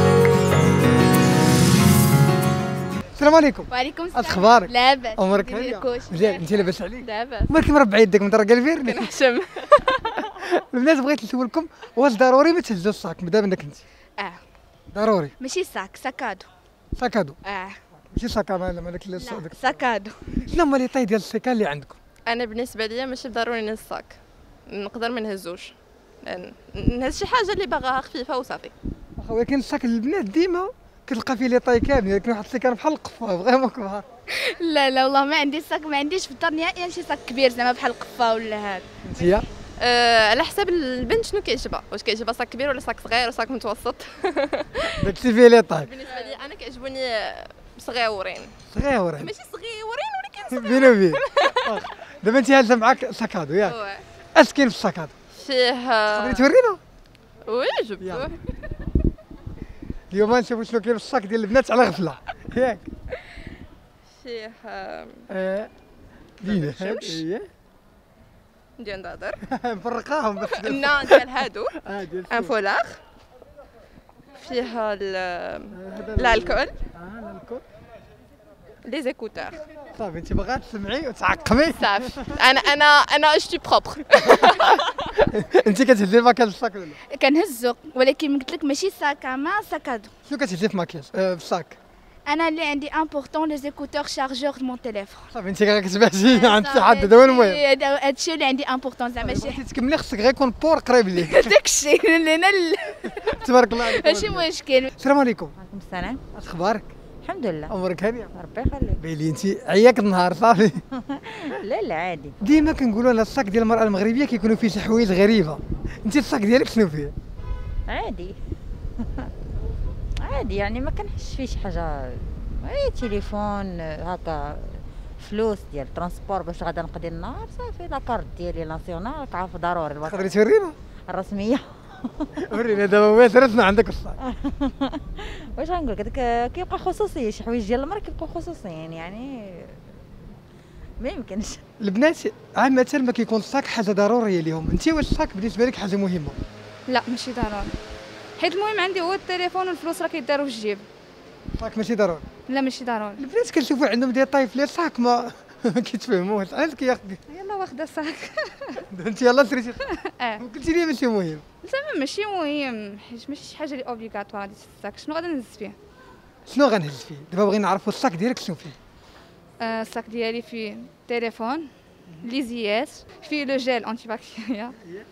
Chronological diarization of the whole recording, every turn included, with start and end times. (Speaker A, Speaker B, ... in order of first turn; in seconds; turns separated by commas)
Speaker A: 3.2-9.1, Speaker B: 3.7-6.5, Speaker B: 7.0-7.5, Speaker C: 8.8-10.3, Speaker A: 10.4-13.8, Speaker A: 14.9-15.3, Speaker B: 15.4-16.5, Speaker A: 16.9-17.4, Speaker B: 17.4-17.8, Speaker A: 18.1-19.8, Speaker B: 19.2-20.3, Speaker A: 20.5-22.0, Speaker C: 22.2-24.2, Speaker C: 24.7-28.7, Speaker A: 29.2-34.0, Speaker B: 34.4-38.8, Speaker A: 39.0-39.5, Speaker C: 39.8-45.0, Speaker A: 45.0-45.9, Speaker C: 45.8-48.5, Speaker A: 48.7-49.3, Speaker C: 49.2-51.7, Speaker A: 50.5-53.8, Speaker C: 53.6-54.0, Speaker A: 54.3-55.1, Speaker C: 55.4-56.5, Speaker A: 56.1-56.8, Speaker C: 57.4-58.4, Speaker A: 58.0-58.3, Speaker A: 60.1-62.9, Speaker C: 64.2-65.2, Speaker A: 65.3-65.7, Speaker A: 66.4-67.5, Speaker C: 66.4-67.2, Speaker C: 68.8-69.4, Speaker A: 69.4-72.5, Speaker C: 70.5-71.7, Speaker C: 72.3-73.0, Speaker C: 74.4-76.7, Speaker A: 75.7-77.6, Speaker C: 78.8-79.6, Speaker A: 79.9-82.3, Speaker C: 81.8-85.0, Speaker A: 84.9-87.0, Speaker B: 87.1-90.1, Speaker A: 90.2-91.8, Speaker B: 92.3-95.3, Speaker A: 95.3-97.6, Speaker B: 96.3-99.5, Speaker A: 99.2-101.6, Speaker B: 101.4-103.0, Speaker A: 103.1-105.5, Speaker B: 103.8-104.9, Speaker D: 105.6-106.2, Speaker A: 106.3-106.9, Speaker D: 107.2-107.7, Speaker A: 107.7-108.3, Speaker D: 108.3-109.0, Speaker A: 109.0-110.8, Speaker D: 110.9-112.3, Speaker A: 112.4-117.1, Speaker D: 117.9-118.3, Speaker D: 119.0-119.3, Speaker D: 120.2-130.3, Speaker A: 130.0-130.8, Speaker D: 131.1-132.3, Speaker A: 132.4-134.2, Speaker D: 134.2-140.2, Speaker D: 141.0-141.6, Speaker A: 141.8-146.4, Speaker E: 146.9-147.7, Speaker E: 148.4-150.9, Speaker A: 151.6-152.2, Speaker E: 152.5-153.2, Speaker A: 153.2-157.2, Speaker E: 157.3-158.8, Speaker A: 158.9-159.9, Speaker E: 160.0-160.4, Speaker A: 160.4-161.4, Speaker E: 161.6-165.8, Speaker A: 166.5-168.8, Speaker E: 169.6-174.8